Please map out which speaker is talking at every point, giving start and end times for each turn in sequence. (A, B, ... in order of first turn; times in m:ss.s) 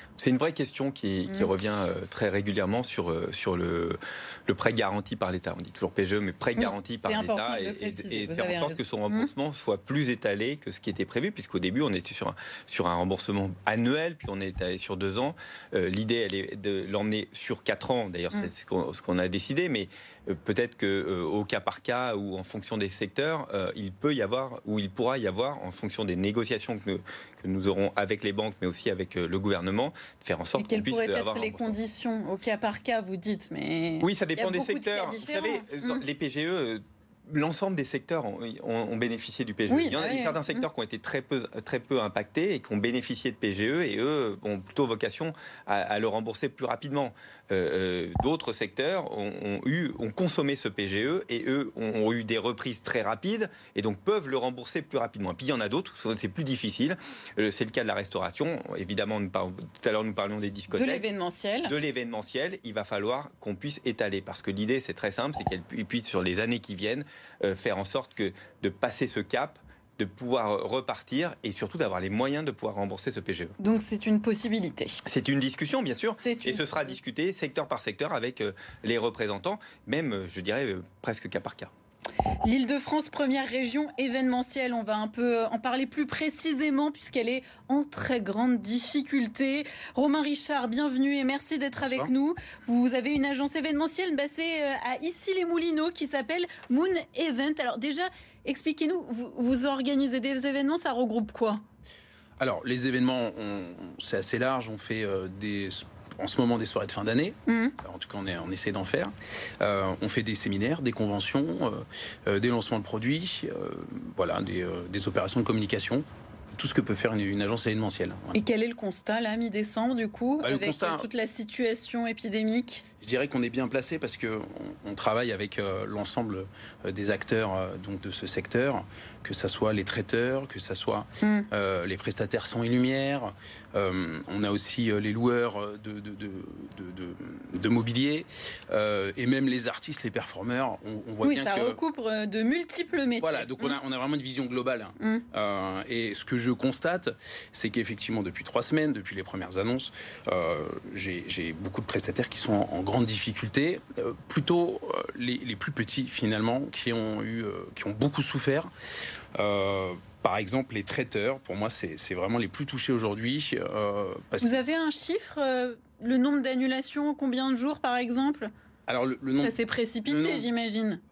0:00.2-0:31.8 A
0:06.6-0:09.3 B
0:30.5-0:36.0 B
0:34.0-1:01.0 A
0:39.7-0:40.6 B
1:00.7-1:01.7 B
1:01.6-1:13.5 A
1:13.6-1:15.0 B
1:15.0-1:21.7 A
1:16.2-1:16.9 B
1:22.4-1:41.6 B
1:31.8-1:32.1 C
1:42.4-1:58.4 C
1:47.5-1:47.7 B
1:58.3-2:02.8 B
2:00.4-2:01.1 C
2:03.0-2:21.8 C
2:11.2-2:11.5 B
2:21.2-2:23.8 B
2:23.2-2:38.7 C
2:25.0-2:25.2 B
2:39.3-2:44.7 C
2:44.4-2:48.5 B
2:48.9-2:50.5 C
2:49.4-2:51.0 B